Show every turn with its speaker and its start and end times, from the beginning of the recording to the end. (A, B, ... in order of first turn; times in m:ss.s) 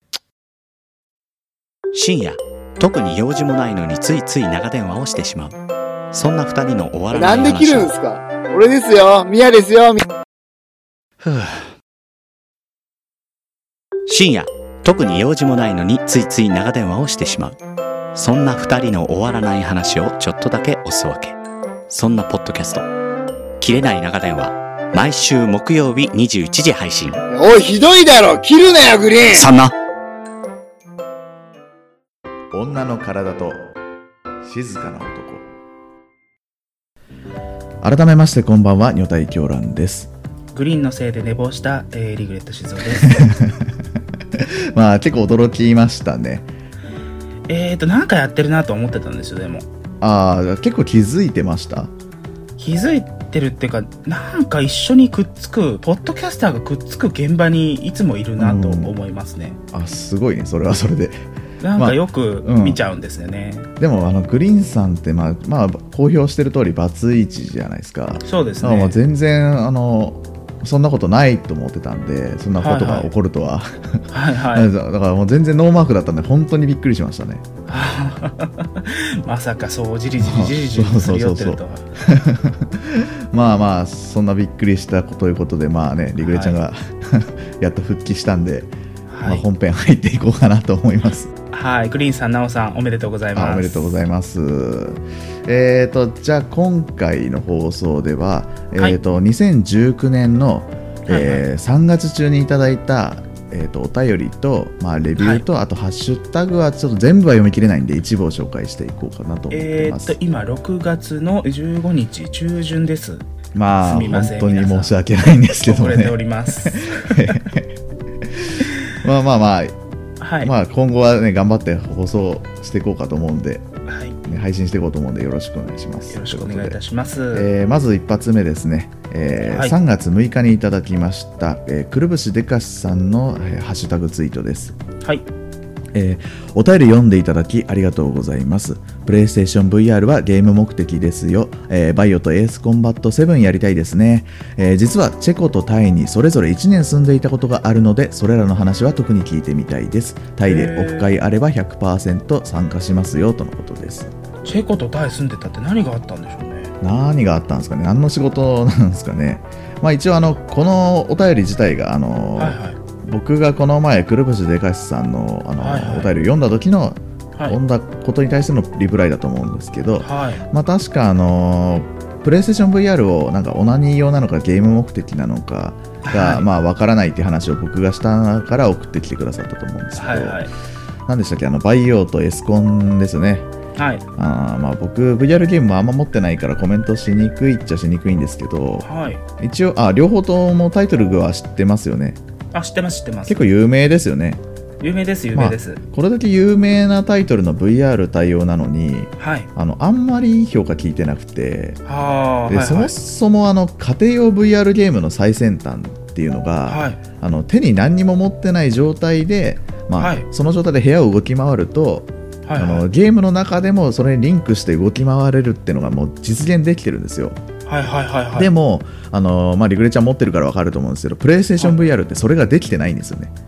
0:01.9-0:05.6 A
0:06.1-0:07.9 A
0:07.1-0:10.0 B
0:11.2-0:11.7 A
0:14.1-0:17.6 A
0:18.2-0:21.4 A
0:21.9-0:22.9 A
0:23.6-0:27.2 A
0:27.3-0:29.5 B
0:29.3-0:29.7 A
0:32.5-0:33.7 C
0:34.4-0:35.5 C
0:37.8-0:40.1 C
0:40.5-0:43.2 D
0:43.1-0:43.7 C
0:44.4-0:46.5 C
0:47.5-0:49.7 D
0:50.0-0:51.9 C
0:52.6-0:59.6 D
0:58.4-0:58.9 C
0:59.7-1:01.2 C
1:01.6-1:03.7 D
1:01.8-1:02.8 C
1:03.8-1:17.4 C
1:08.2-1:09.0 D
1:12.6-1:13.1 D
1:14.1-1:14.7 D
1:17.7-1:21.8 D
1:20.2-1:28.7 C
1:26.2-1:26.6 D
1:29.1-1:29.4 D
1:29.2-1:31.3 C
1:31.5-1:34.0 D
1:33.4-1:50.2 C
1:41.1-1:41.4 D
1:45.2-1:45.4 D
1:49.5-1:53.2 D
1:53.5-1:57.7 C
1:53.8-1:54.9 D
1:55.6-1:57.4 D
1:58.3-1:59.7 C
2:00.2-2:00.5 D
2:00.4-2:03.7 C
2:03.9-2:04.2 D
2:04.2-2:06.8 C
2:06.1-2:07.5 D
2:07.3-2:14.8 C
2:09.4-2:09.8 D
2:15.9-2:34.1 C
2:30.4-2:31.1 D
2:34.4-2:36.7 D
2:36.8-3:00.5 C
2:42.4-2:42.8 D
2:45.6-2:46.1 D
2:50.0-2:50.4 D
2:56.0-2:56.5 D
3:00.0-3:00.5 D
3:01.1-3:03.5 C
3:03.8-3:04.0 D
3:04.2-3:08.9 C
3:08.8-3:09.2 D
3:09.4-3:12.2 C
3:12.5-3:13.4 D
3:13.3-3:14.4 C
3:14.8-3:15.8 D
3:15.3-3:21.8 C
3:19.2-3:19.5 D
3:21.8-3:22.9 D
3:22.5-3:37.4 C
3:26.7-3:27.0 D
3:30.0-3:30.3 D
3:32.4-3:32.9 D
3:37.7-3:38.5 D
3:38.4-3:43.3 C